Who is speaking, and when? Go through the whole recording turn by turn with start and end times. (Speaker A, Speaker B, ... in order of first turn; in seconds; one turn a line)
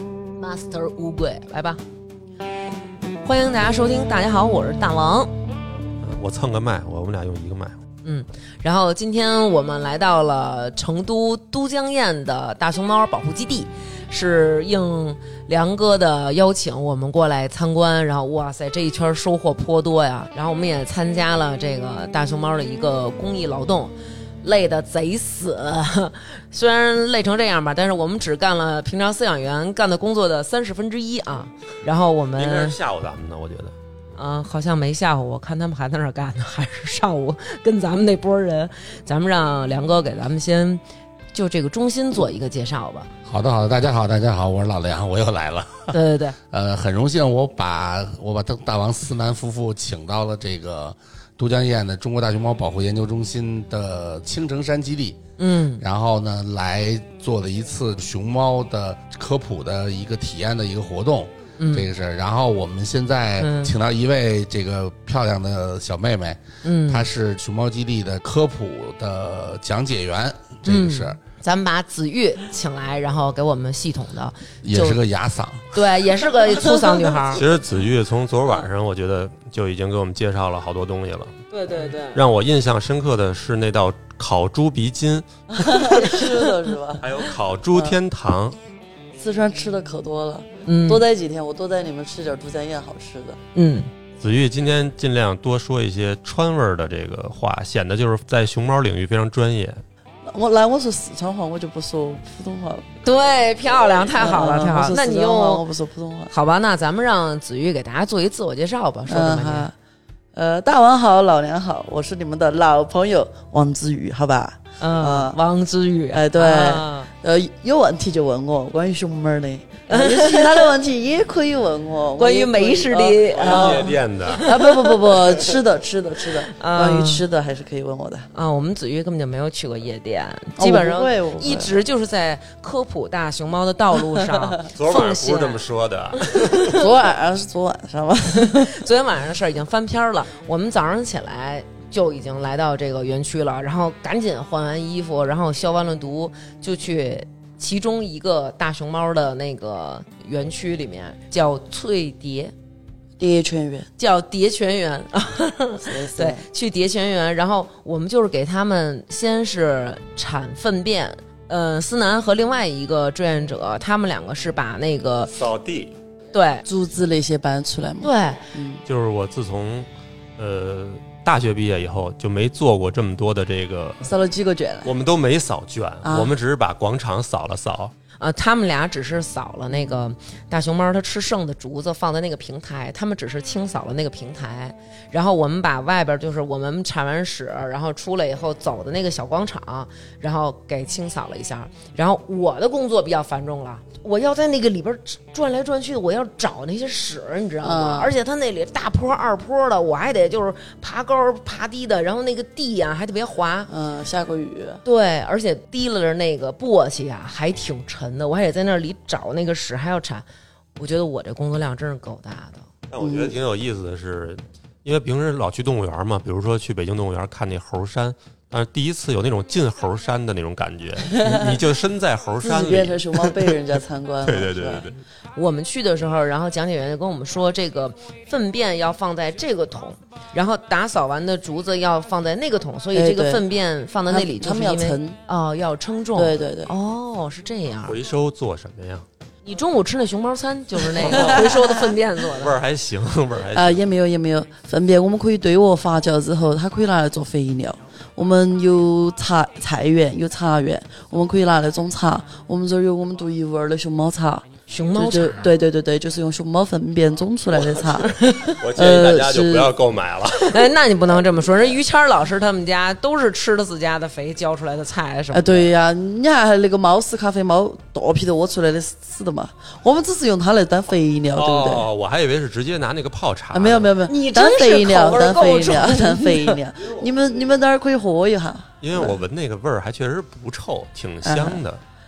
Speaker A: 0.4-1.8
Speaker A: 3.2-5.3
Speaker B: 6.0-7.8
Speaker A: 8.0-32.8
Speaker B: 32.4-33.7
Speaker A: 34.1-40.8
Speaker A: 41.3-43.1
Speaker C: 43.2-46.0
Speaker A: 45.9-46.4
Speaker C: 46.5-55.2
Speaker A: 55.4-55.8
Speaker C: 55.8-71.2
Speaker A: 61.6-61.9
Speaker A: 63.4-63.7
Speaker A: 66.6-67.1
Speaker A: 70.6-75.0
Speaker C: 74.6-75.9
Speaker A: 75.7-77.4
Speaker B: 77.3-81.4
Speaker A: 81.5-82.2
Speaker B: 82.1-86.1
Speaker D: 85.5-87.0
Speaker A: 85.9-86.5
Speaker B: 87.0-88.6
Speaker D: 87.7-88.0
Speaker D: 89.2-93.4
Speaker A: 90.7-91.0
Speaker A: 93.5-93.9
Speaker B: 94.2-99.8
Speaker D: 100.2-102.9
Speaker A: 103.0-105.6
Speaker D: 104.1-106.3
Speaker A: 106.3-109.7
Speaker D: 109.1-109.7
Speaker D: 110.3-115.4
Speaker A: 114.8-117.1
Speaker D: 116.1-128.3
Speaker A: 119.9-120.7
Speaker A: 122.2-124.8
Speaker B: 123.3-124.5
Speaker A: 126.5-127.2
Speaker A: 128.3-135.6
Speaker D: 130.6-131.7
Speaker B: 134.7-136.8
Speaker A: 136.3-136.8
Speaker D: 136.8-138.8
Speaker A: 138.3-152.5
Speaker D: 153.2-153.9
Speaker A: 154.0-165.3
Speaker D: 155.8-156.4
Speaker B: 165.3-165.9
Speaker A: 166.3-166.6
Speaker D: 166.7-168.8
Speaker A: 168.0-168.4
Speaker B: 168.9-174.1
Speaker D: 174.0-174.9
Speaker B: 174.8-177.9
Speaker D: 176.0-176.3
Speaker A: 178.2-203.7
Speaker D: 179.7-180.0
Speaker D: 197.6-198.1
Speaker D: 203.7-204.8
Speaker A: 204.8-210.2
Speaker A: 210.8-212.7
Speaker B: 212.9-223.5
Speaker D: 213.0-213.4
Speaker D: 221.1-221.6
Speaker D: 222.4-224.9
Speaker B: 224.2-225.0
Speaker A: 225.3-238.0
Speaker D: 232.9-233.4
Speaker D: 234.1-235.2
Speaker D: 236.1-236.7
Speaker B: 237.8-239.1
Speaker A: 239.4-242.5
Speaker B: 241.0-241.5
Speaker D: 241.1-241.4
Speaker B: 242.3-243.8
Speaker D: 243.5-258.2
Speaker A: 254.7-255.5
Speaker B: 257.5-260.7
Speaker A: 258.2-258.5
Speaker D: 258.7-259.7
Speaker A: 260.4-265.7
Speaker D: 265.3-271.9
Speaker B: 271.3-273.9
Speaker D: 273.5-279.2
Speaker A: 274.1-276.6
Speaker B: 278.8-281.8
Speaker D: 281.2-281.6